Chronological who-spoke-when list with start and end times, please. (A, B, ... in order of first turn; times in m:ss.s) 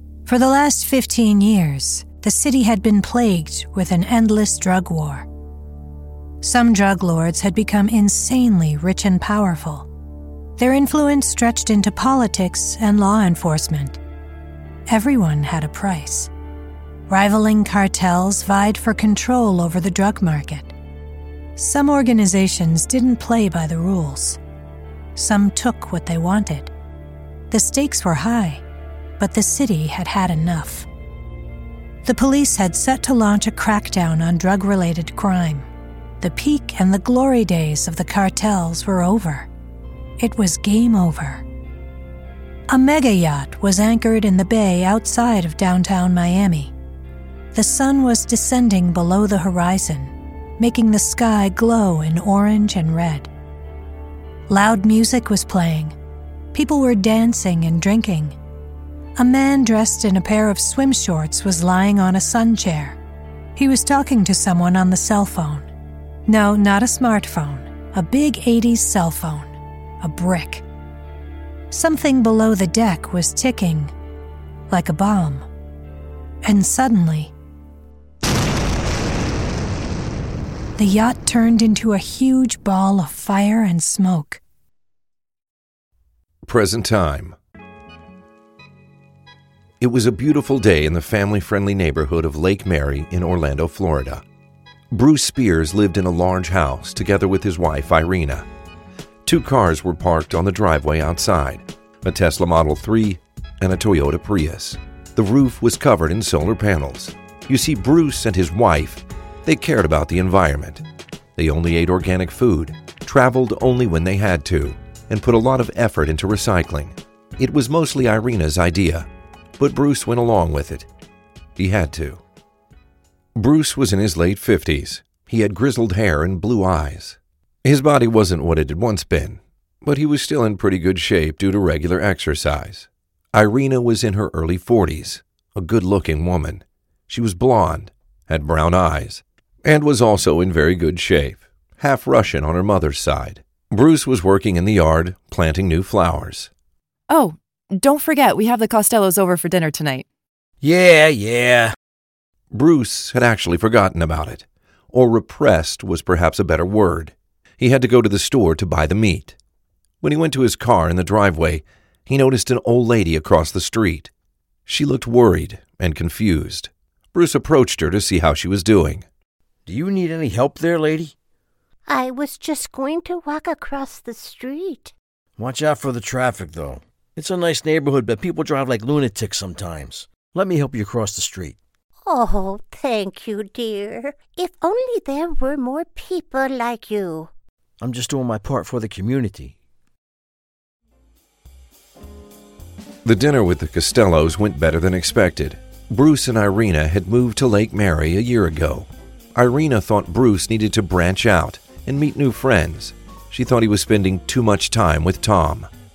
0:00.3-0:05.3 A
0:06.4-0:09.9 A
0:10.6-0:14.0 A
0:14.9-0:16.3 A
0:17.1-0:20.7 A
0:21.6-0:24.4 A
0:25.2-0:26.7 A
0:27.5-0:28.6 A
0:29.2-0:30.9 A
0:32.0-0:35.7 A
0:36.2-0:39.5 A
0:40.2-0:41.4 A
0:42.7-0:46.7 A
0:47.5-0:53.3 A
0:54.5-0:56.0 A
0:56.5-0:58.4 A
0:59.2-1:03.0 A
1:03.6-1:05.7 A
1:06.3-1:10.6 A
1:11.7-1:13.9 A
1:14.7-1:15.5 A
1:16.4-1:17.3 A
1:20.8-1:24.4 A
1:26.4-1:27.4 B
1:29.8-1:34.2 B
1:34.9-1:38.5 B
1:39.2-1:50.8 B
1:51.4-1:59.1 B
1:59.6-2:00.9 B
2:01.6-2:02.2 B
2:03.4-2:26.5 B
2:27.1-2:30.0 C
2:30.6-2:31.8 D
2:32.5-2:39.4 B
2:40.0-2:44.1 B
2:44.7-2:49.0 B
2:49.7-2:51.2 D
2:51.9-2:54.9 E
2:55.4-3:01.6 D
3:02.0-3:07.3 E
3:07.8-3:09.6 D
3:13.0-3:25.7 B